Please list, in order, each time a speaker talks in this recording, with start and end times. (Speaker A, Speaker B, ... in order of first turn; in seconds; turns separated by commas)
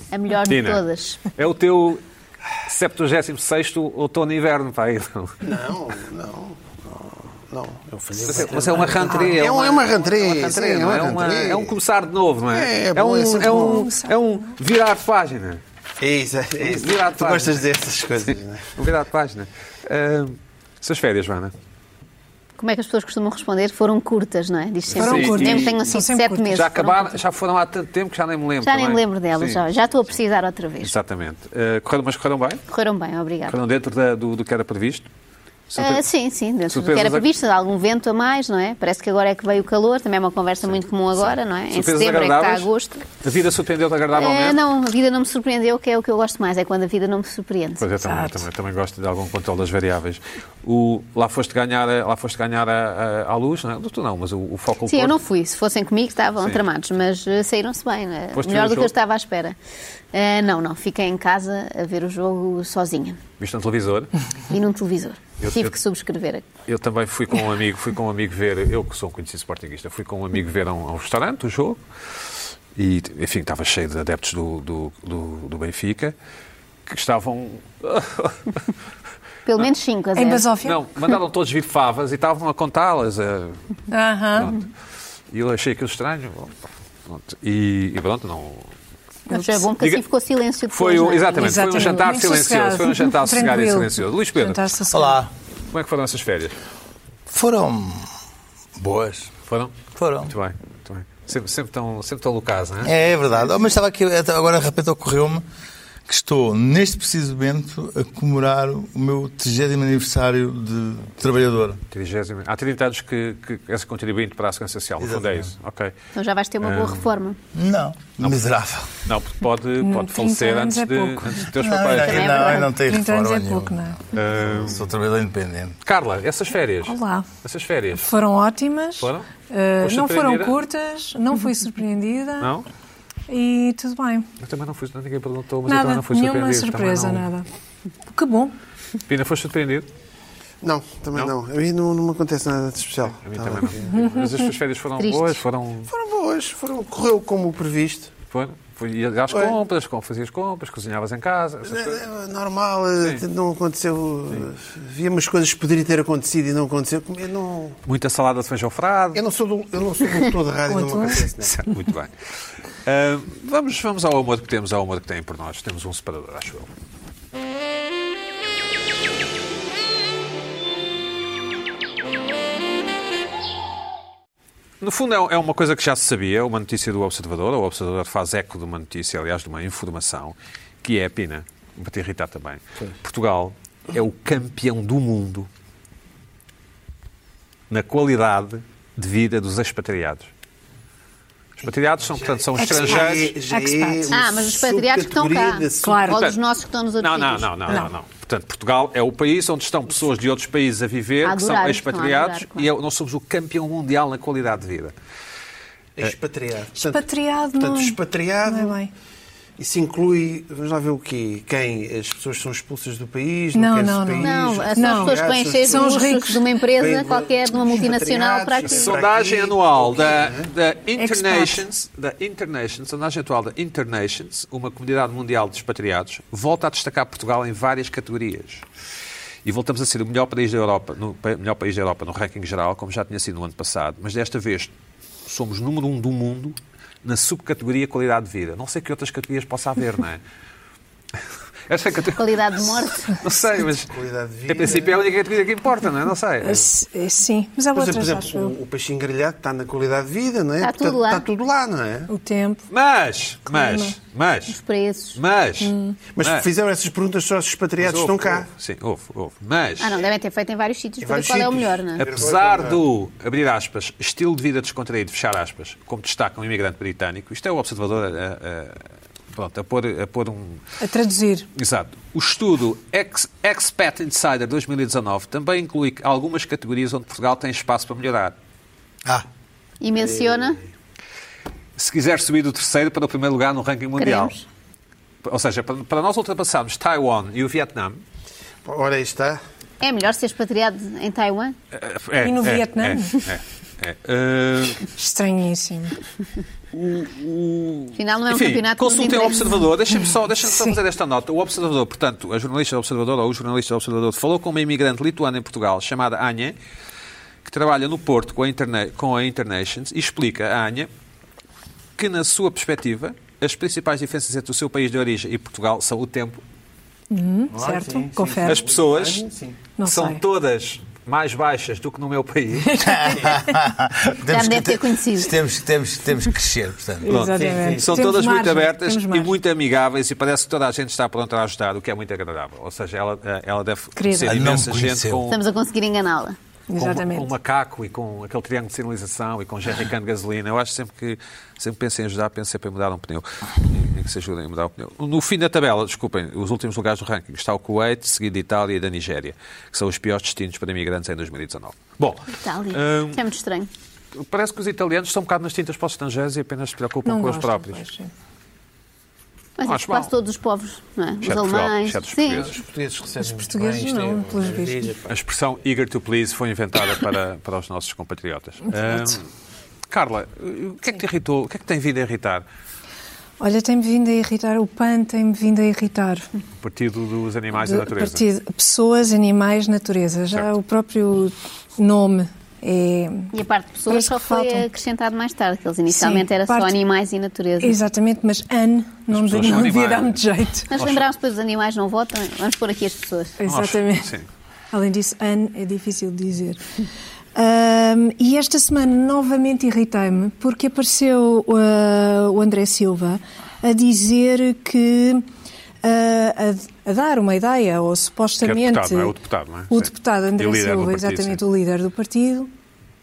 Speaker A: 0.1-1.2, Speaker B: 0.4-2.0, Speaker B: 2.6-5.3, Speaker C: 5.4-11.8, Speaker B: 8.2-15.6, Speaker C: 12.5-13.8, Speaker D: 13.3-14.2, Speaker C: 16.0-18.6, Speaker B: 16.6-17.6, Speaker B: 18.2-21.5, Speaker A: 22.6-27.2, Speaker B: 24.9-25.8, Speaker D: 25.0-26.6, Speaker B: 26.5-29.6, Speaker A: 28.6-30.9, Speaker B: 30.8-32.6, Speaker A: 32.7-33.6, Speaker B: 33.5-35.1, Speaker B: 35.7-36.1, Speaker A: 35.8-43.0, Speaker B: 36.7-37.2, Speaker B: 40.6-42.7, Speaker B: 43.2-44.6, Speaker A: 44.1-47.9, Speaker B: 47.8-55.1, Speaker D: 48.0-48.4, Speaker A: 54.9-59.5, Speaker B: 58.3-58.9, Speaker A: 60.1-63.2, Speaker B: 63.4-64.1, Speaker A: 64.5-66.5, Speaker B: 65.4-65.7, Speaker B: 66.7-71.8, Speaker B: 72.7-76.1, Speaker B: 76.9-78.6, Speaker A: 79.5-80.5, Speaker D: 80.1-80.8, Speaker B: 80.6-83.6, Speaker D: 83.9-84.5, Speaker B: 84.3-84.6, Speaker B: 85.3-86.5, Speaker B: 87.0-88.7, Speaker A: 89.3-91.8, Speaker B: 89.8-90.0, Speaker B: 90.7-94.6, Speaker D: 91.4-95.2, Speaker E: 94.9-95.3, Speaker B: 95.7-96.6, Speaker E: 97.3-98.0, Speaker E: 98.8-99.3, Speaker B: 99.5-99.7, Speaker E: 99.9-100.3, Speaker B: 100.2-102.9, Speaker E: 102.8-105.4, Speaker E: 106.1-111.8, Speaker B: 111.9-115.9, Speaker E: 115.0-115.5, Speaker A: 116.1-117.4, Speaker B: 116.6-117.0, Speaker E: 117.5-118.9, Speaker B: 119.0-122.6, Speaker D: 119.8-121.4, Speaker E: 121.5-125.8, Speaker A: 122.0-122.7, Speaker D: 122.7-124.0, Speaker B: 124.1-124.9, Speaker B: 125.8-128.1, Speaker D: 126.8-127.3, Speaker D: 128.0-132.5, Speaker B: 129.0-129.3, Speaker B: 129.8-130.6, Speaker B: 132.4-132.7, Speaker D: 133.3-134.3, Speaker B: 134.4-137.3, Speaker D: 135.7-137.4, Speaker D: 138.1-138.5, Speaker B: 139.1-139.9, Speaker C: 140.6-144.2, Speaker B: 143.1-145.9, Speaker A: 145.0-145.3, Speaker C: 145.9-148.1, Speaker B: 148.3-152.0, Speaker C: 149.3-149.6, Speaker C: 151.7-157.8, Speaker B: 157.8-159.2, Speaker C: 159.1-161.6, Speaker D: 160.7-161.2, Speaker B: 161.4-162.1, Speaker B: 162.8-166.7, Speaker B: 174.8-185.5, Speaker B: 187.7-190.3, Speaker B: 191.6-193.3, Speaker C: 192.1-196.1, Speaker D: 192.6-194.1, Speaker A: 194.1-197.8, Speaker D: 195.8-196.3, Speaker B: 197.0-204.9, Speaker A: 201.2-202.7, Speaker C: 206.0-207.0, Speaker D: 206.7-208.9, Speaker C: 207.6-208.8, Speaker C: 209.6-216.1, Speaker D: 213.5-216.6, Speaker A: 214.2-219.0, Speaker C: 216.7-220.5, Speaker B: 218.7-228.6, Speaker D: 221.0-221.6, Speaker B: 229.4-234.7, Speaker B: 235.2-240.2, Speaker B: 241.7-243.9, Speaker A: 242.2-243.2, Speaker C: 243.9-245.0, Speaker B: 244.5-246.7, Speaker D: 246.4-248.5, Speaker C: 247.7-252.1, Speaker A: 250.6-251.3, Speaker D: 252.1-252.7, Speaker B: 252.7-254.6, Speaker D: 253.5-254.0, Speaker A: 254.5-255.2, Speaker B: 255.2-256.5, Speaker D: 255.6-256.0, Speaker C: 256.1-258.5, Speaker B: 257.8-259.9, Speaker A: 259.8-262.1, Speaker C: 261.0-262.8, Speaker B: 262.0-270.6, Speaker D: 270.8-271.5, Speaker B: 271.6-278.3, Speaker A: 279.8-280.6, Speaker C: 279.9-280.5, Speaker B: 281.8-284.4, Speaker A: 284.0-284.4, Speaker B: 285.2-288.0, Speaker C: 288.6-289.4, Speaker A: 289.8-291.5, Speaker B: 291.7-294.9, Speaker D: 292.2-293.2, Speaker D: 294.9-296.0, Speaker B: 296.7-306.6, Speaker A: 297.9-299.5, Speaker D: 299.6-300.8, Speaker B: 307.4-310.9, Speaker B: 312.0-316.4, Speaker D: 317.1-318.6, Speaker C: 317.5-319.6, Speaker B: 318.4-319.2, Speaker D: 319.8-320.2, Speaker B: 319.8-322.9, Speaker D: 322.6-323.6, Speaker E: 322.8-327.1, Speaker A: 324.3-325.4, Speaker D: 327.0-329.3, Speaker B: 327.1-335.4, Speaker C: 327.1-328.0, Speaker D: 333.9-334.4, Speaker E: 334.2-335.2, Speaker A: 335.3-336.4, Speaker D: 336.7-337.3, Speaker B: 336.8-353.2, Speaker A: 352.3-353.7, Speaker B: 354.1-357.8, Speaker D: 357.0-358.1, Speaker A: 359.6-362.5, Speaker B: 359.6-360.1, Speaker B: 361.2-362.6, Speaker C: 362.3-365.2, Speaker D: 363.2-364.9, Speaker B: 365.1-369.2, Speaker B: 369.9-372.4, Speaker D: 373.4-376.3, Speaker B: 376.6-378.2, Speaker D: 377.5-383.3, Speaker A: 383.3-387.8, Speaker D: 383.9-384.7, Speaker D: 385.9-386.7, Speaker D: 387.6-390.7, Speaker B: 389.1-390.2, Speaker A: 390.7-393.4, Speaker B: 390.7-391.0, Speaker D: 393.4-394.1, Speaker B: 393.5-394.2, Speaker D: 394.7-396.6, Speaker D: 397.4-405.2, Speaker D: 405.8-409.1, Speaker B: 408.4-411.4, Speaker D: 409.7-412.5